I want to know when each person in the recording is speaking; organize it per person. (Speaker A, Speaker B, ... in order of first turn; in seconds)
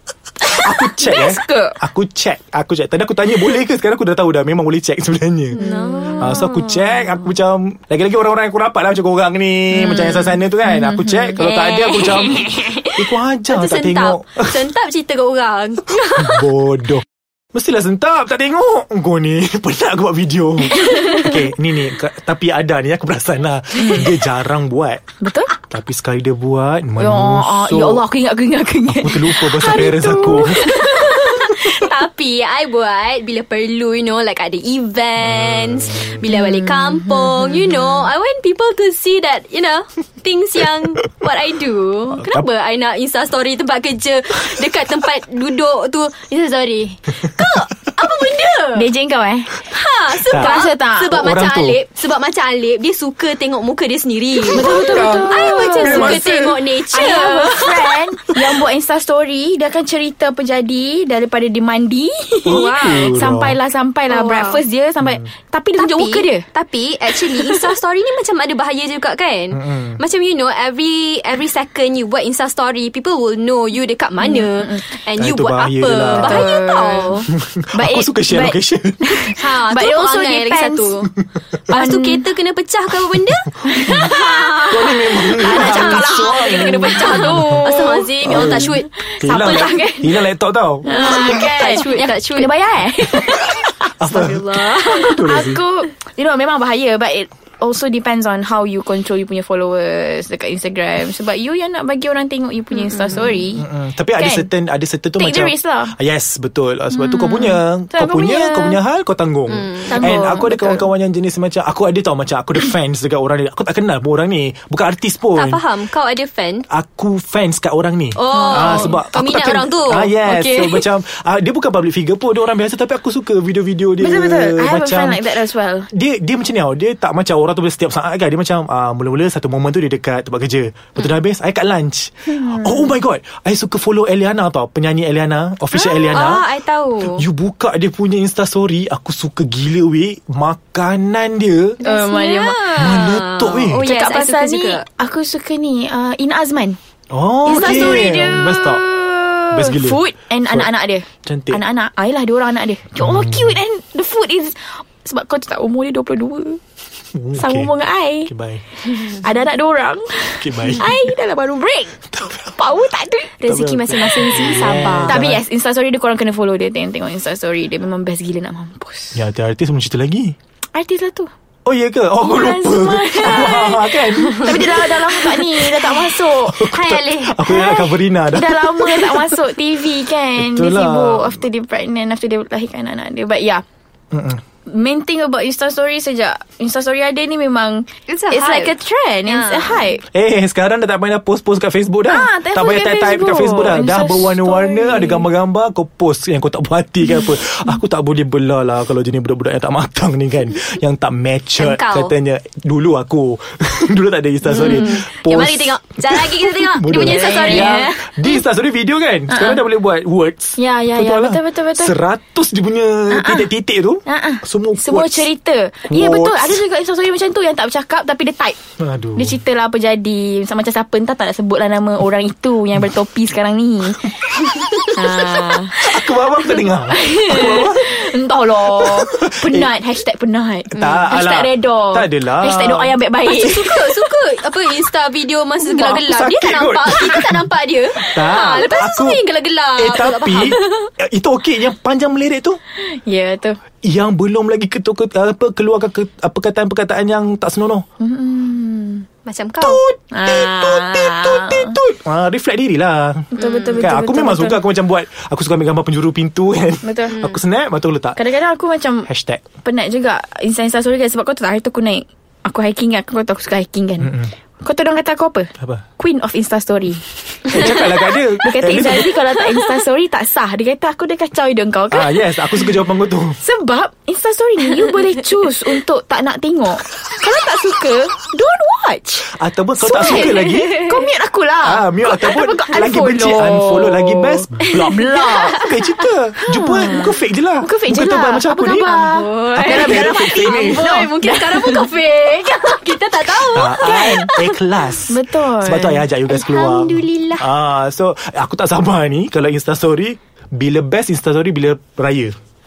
Speaker A: 0.4-1.8, 5.5-6.4, 10.6-11.4, 20.8-21.2, 25.2-25.5, 27.0-31.8, 48.7-49.6, 50.3-51.1, 54.5-56.3, 56.9-66.4, 67.1-67.8, 74.2-74.8, 76.1-81.1, 81.7-82.2, 83.6-90.2, 90.8-93.9, 94.7-104.5, 105.2-106.0, 106.9-108.8, 109.9-110.9, 118.3-118.9, 124.0-125.9, 141.8-142.8, 143.8-146.8, 147.4-156.6, 157.3-163.3, 165.1-169.2, 170.7-171.3, 172.2-176.7, 177.4-183.6, 184.7-190.0, 192.1-195.2, 206.9-208.0, 209.3-209.6, 210.6-211.9, 213.1-213.5, 214.1-218.6, 219.1-226.2, 226.8-233.9, 242.8-243.6, 248.0-249.1, 250.1-251.8, 253.3-254.6, 256.8-257.2, 258.1-259.1, 259.6-272.3, 273.4-285.6, 286.4-291.9, 293.7-294.3, 295.1-296.0
Speaker B: 0.5-5.6, 6.1-14.6, 16.1-25.0, 25.7-28.0, 28.9-30.7, 35.2-36.2, 42.1-42.4, 50.2-50.6, 51.1-51.8, 54.5-56.6, 62.4-63.5, 69.5-70.0, 75.2-76.5, 77.3-79.3, 84.7-87.6, 88.2-91.3, 94.0-95.6, 103.5-115.6, 116.7-125.2, 125.9-136.4, 137.0-141.8, 142.8-143.8, 147.1-148.8, 149.5-150.7, 151.2-151.6, 153.0-153.6, 157.1-157.7, 158.3-158.6, 160.4-160.9, 162.1-162.6, 163.4-165.4, 169.1-170.3, 171.6-175.0, 176.4-179.0, 180.3-181.4, 184.1-184.4, 190.1-215.3, 215.9-216.6, 218.8-219.4, 225.5-228.1, 228.6-229.7, 230.7-233.0, 235.6-239.2, 239.8-242.6, 243.8-247.8, 249.6-258.2, 259.1-259.4, 267.5-269.6, 271.9-273.4, 279.2-280.8, 281.6-288.9, 289.6-291.0, 293.5-302.4
Speaker C: 5.5-6.9, 9.8-10.3, 11.3-16.5, 30.3-48.8, 49.5-58.3, 62.4-63.2, 64.1-64.6, 65.8-77.3, 79.3-81.1, 81.7-89.5, 90.9-92.5, 94.0-95.1, 102.7-103.2, 109.5-110.0, 115.3-116.7, 118.1-120.8, 135.7-137.2, 141.8-144.8, 147.4-148.4, 163.4-165.2, 173.2-173.6, 176.6-177.6, 188.1-188.7, 189.3-189.8, 201.6-202.1, 204.4-208.4, 233.2-240.9, 249.2-249.8, 253.4-253.8, 288.8-294.6, 296.3-297.5